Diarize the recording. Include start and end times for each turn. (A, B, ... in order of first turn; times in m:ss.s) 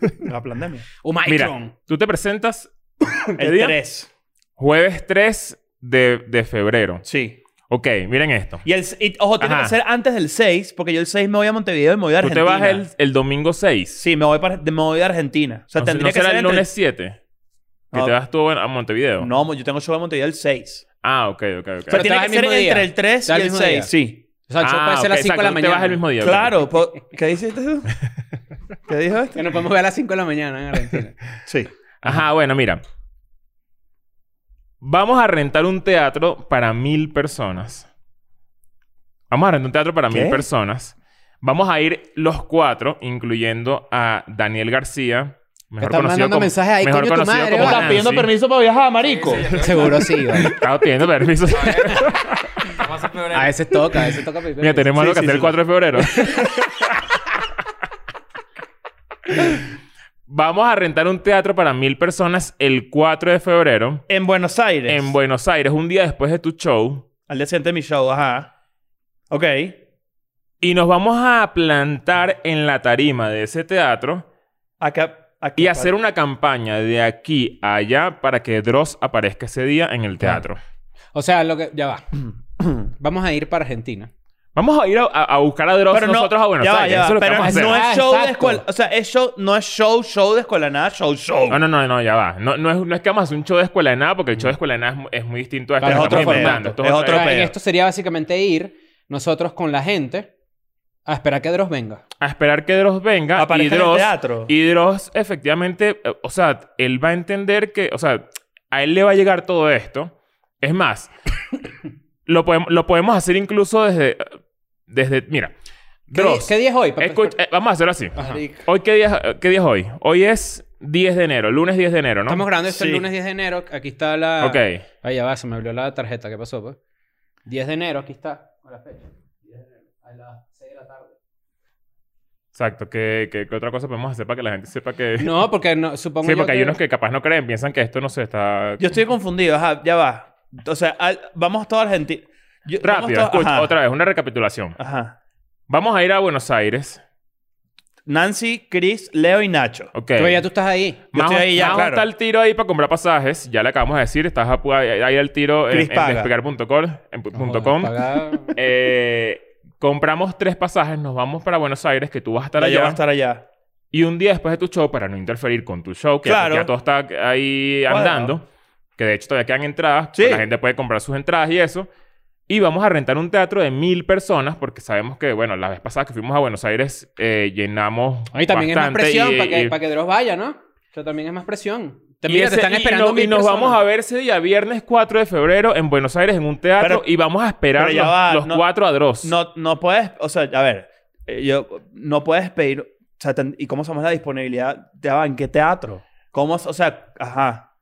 0:00.2-0:00.9 A
0:01.0-0:01.7 B
0:01.3-0:02.7 C
0:03.4-0:03.8 C
0:03.4-0:04.1 A
0:04.6-0:07.0 C
0:07.0-0:07.4 A
0:07.7-0:08.6 C
0:08.6-0:12.9 A
0:09.4-0:09.8 C
0:12.2-0:14.0 C
0:14.0-0:16.7 A
0:15.8-0:17.2 C
0:17.9-0:19.3 C
0:19.2-0:20.8 A
0:21.0-0:22.0 C
0:21.9-0:24.2 A
0:21.9-0:23.9 B
0:24.5-0:26.0 B
0:24.6-0:26.6 C
0:26.2-0:27.9 A
0:28.9-0:29.4 A
0:29.3-0:31.2 B
0:31.5-0:31.7 A
0:32.0-0:32.8 C
0:34.8-0:37.9 C
0:39.3-0:48.3 C
0:40.1-0:40.4 A
0:45.8-0:47.9 B
0:47.5-0:49.5 A
0:49.0-0:50.1 D
0:49.6-0:50.6 B
0:50.4-0:52.5 C
0:51.5-0:52.1 D
0:52.7-0:53.5 D
0:53.3-0:54.9 B
0:54.6-0:57.0 C
0:55.0-0:55.6 A
1:00.3-1:04.0 C
1:04.1-1:05.2 A
1:04.9-1:07.1 C
1:07.3-1:08.5 A
1:09.3-1:09.8 A
1:10.6-1:14.3 C
1:14.8-1:15.9 A
1:15.6-1:20.6 C
1:21.1-1:22.0 B
1:22.6-1:22.9 A
1:23.0-1:24.1 B
1:24.6-1:27.8 C
1:25.9-1:31.6 A
1:27.4-1:28.6 B
1:31.5-1:37.5 C
1:35.8-1:40.3 B
1:35.8-1:37.5 A
1:41.1-1:42.0 B
1:42.2-1:51.1 C
1:43.4-1:44.5 A
1:52.3-1:54.3 C
1:54.9-1:55.5 C
1:56.1-2:02.4 C
1:56.1-1:57.3 B
1:58.2-1:58.4 B
1:58.2-1:58.7 A
2:02.3-2:06.8 B
2:02.7-2:03.0 A
2:04.4-2:04.8 C
2:07.5-2:11.2 B
2:12.6-2:15.4 C
2:15.2-2:16.8 B
2:16.2-2:18.9 C
2:18.8-2:23.7 A
2:22.8-2:24.8 C
2:24.8-2:25.2 A
2:25.7-2:27.0 C
2:28.1-2:29.9 A
2:29.9-2:30.4 C
2:30.2-2:31.0 B
2:31.1-2:32.1 A
2:31.1-2:38.0 C
2:35.7-2:36.3 A
2:37.4-2:38.6 B
2:38.5-2:43.0 C
2:42.6-2:43.4 A
2:43.9-2:48.4 C
2:46.2-2:46.7 A
2:47.9-2:48.4 A
2:49.0-2:51.9 C
2:50.1-2:50.4 A
2:52.5-2:59.8 C
2:58.3-3:03.8 B
3:02.3-3:09.3 C
3:06.8-3:07.0 A
3:07.8-3:08.6 A
3:09.2-3:17.7 A